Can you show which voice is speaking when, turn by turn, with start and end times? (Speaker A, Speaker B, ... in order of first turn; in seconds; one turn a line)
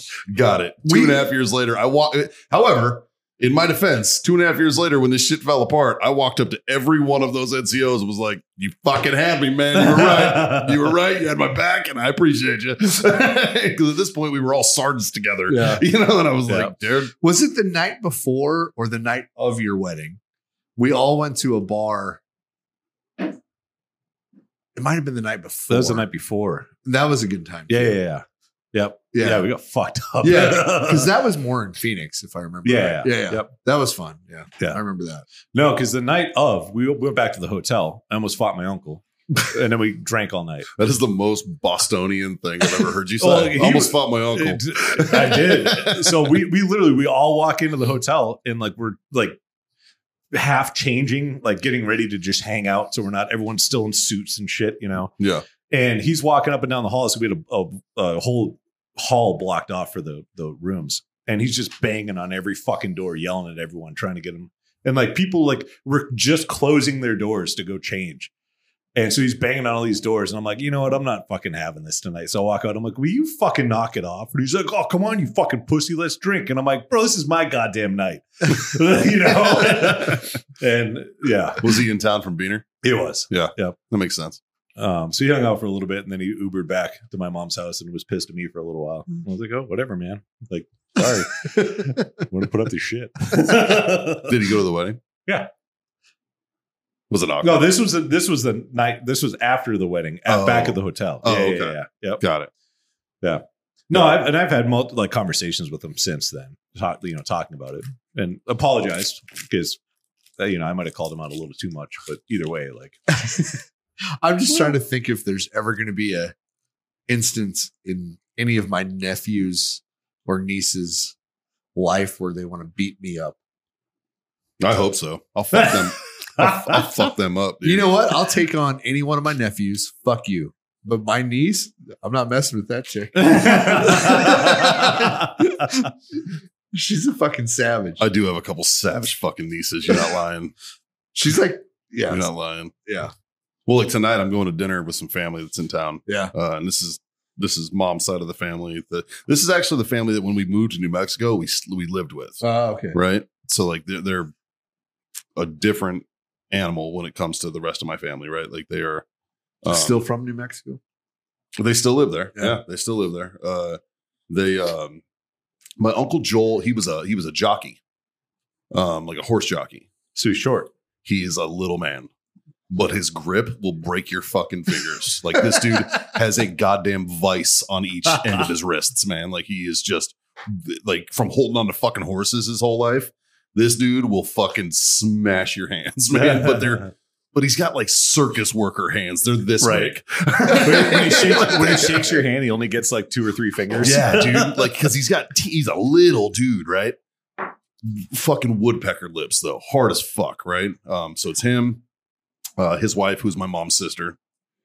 Speaker A: 0.3-17.1
Speaker B: 0.8-1.2
Speaker C: 9.7-10.8
Speaker B: 15.5-15.8
Speaker C: 16.5-16.7
Speaker B: 17.2-20.2
Speaker B: 20.8-22.2
Speaker B: 24.7-26.1
Speaker C: 25.7-26.7
Speaker B: 26.8-28.0
Speaker C: 27.7-31.1
Speaker B: 29.1-29.5
Speaker B: 30.2-35.2
Speaker C: 32.6-33.5
Speaker C: 35.5-40.7
Speaker A: 40.8-46.1
Speaker C: 43.2-49.4
Speaker C: 50.3-55.1
Speaker A: 55.2-55.4
Speaker C: 55.7-68.3
Speaker C: 68.9-81.8
Speaker A: 79.5-80.2
Speaker A: 81.6-82.7
Speaker C: 82.8-83.8
Speaker A: 83.3-84.4
Speaker C: 84.8-94.3
Speaker A: 94.2-95.0
Speaker A: 97.1-97.7
Speaker C: 97.4-102.2
Speaker A: 100.3-102.5
Speaker C: 103.2-109.8
Speaker C: 110.4-113.0
Speaker B: 113.2-113.5
Speaker B: 114.2-116.3
Speaker B: 117.1-121.1
Speaker B: 121.7-123.3
Speaker A: 124.6-127.9
Speaker C: 126.4-126.7
Speaker B: 127.6-135.8
Speaker C: 133.2-135.9
Speaker B: 136.7-138.0
Speaker A: 138.0-140.5
Speaker B: 141.1-142.3
Speaker A: 142.1-142.7
Speaker B: 142.8-143.1
Speaker A: 143.7-152.4
Speaker B: 146.1-146.3
Speaker B: 152.4-153.0
Speaker A: 152.9-154.3
Speaker A: 155.3-159.0
Speaker A: 159.6-160.0
Speaker B: 159.7-160.8
Speaker A: 161.6-165.0
Speaker A: 165.8-167.8
Speaker A: 168.7-169.9
Speaker C: 170.1-170.7
Speaker A: 171.0-172.1
Speaker A: 172.7-192.2
Speaker C: 186.1-186.9
Speaker C: 189.6-189.9
Speaker C: 190.5-194.6
Speaker A: 193.8-196.9
Speaker A: 197.8-201.8
Speaker A: 202.6-204.2